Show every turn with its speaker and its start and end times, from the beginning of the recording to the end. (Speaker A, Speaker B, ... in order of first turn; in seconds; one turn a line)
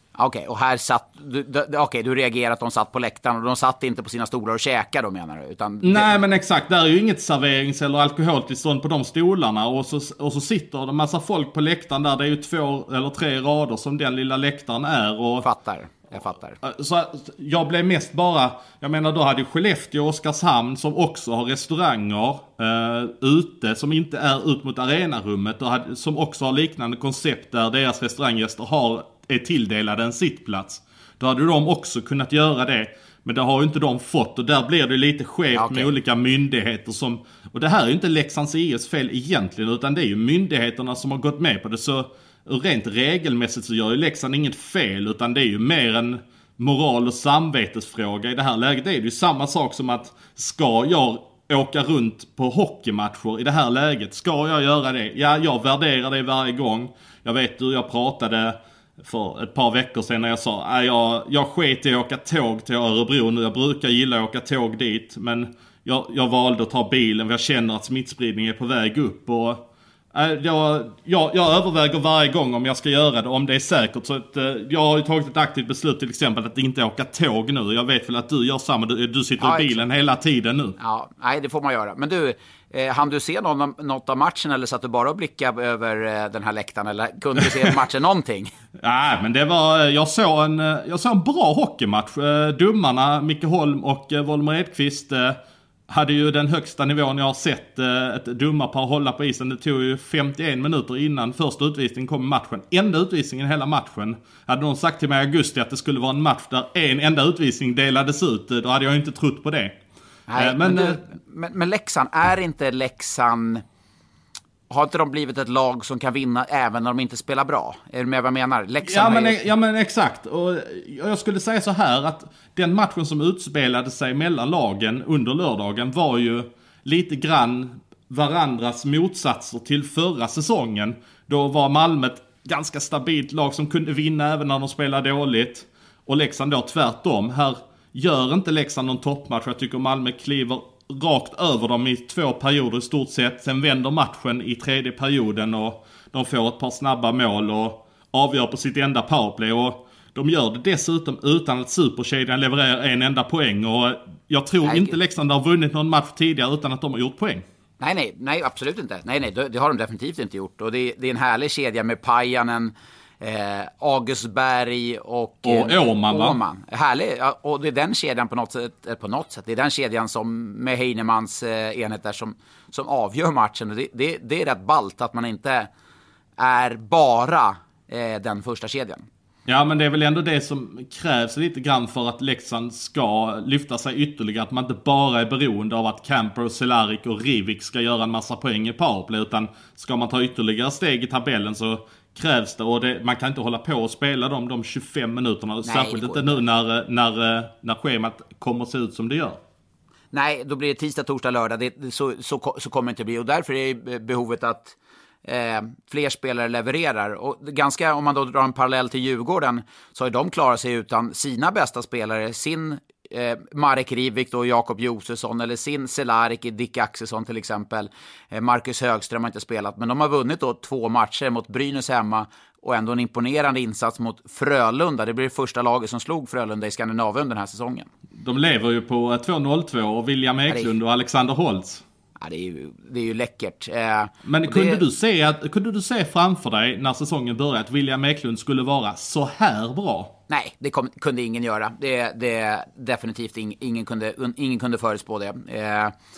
Speaker A: 0.2-6.2
Speaker B: 5.8-15.5
Speaker A: 15.4-16.6
Speaker B: 16.6-80.8
Speaker A: 35.5-35.9
Speaker A: 79.4-79.8
Speaker A: 80.8-88.5
Speaker B: 88.8-109.8
Speaker A: 110.3-113.6
Speaker B: 110.4-111.0
Speaker A: 114.7-119.5
Speaker B: 118.8-157.5
Speaker A: 154.7-155.0
Speaker A: 157.8-175.7
Speaker B: 165.4-166.4
Speaker A: 176.4-179.1
Speaker B: 179.5-199.4
Speaker A: 195.7-196.3
Speaker A: 200.1-227.9
Speaker B: 228.2-231.8
Speaker A: 232.2-234.8
Speaker B: 234.2-240.1
Speaker A: 240.3-245.9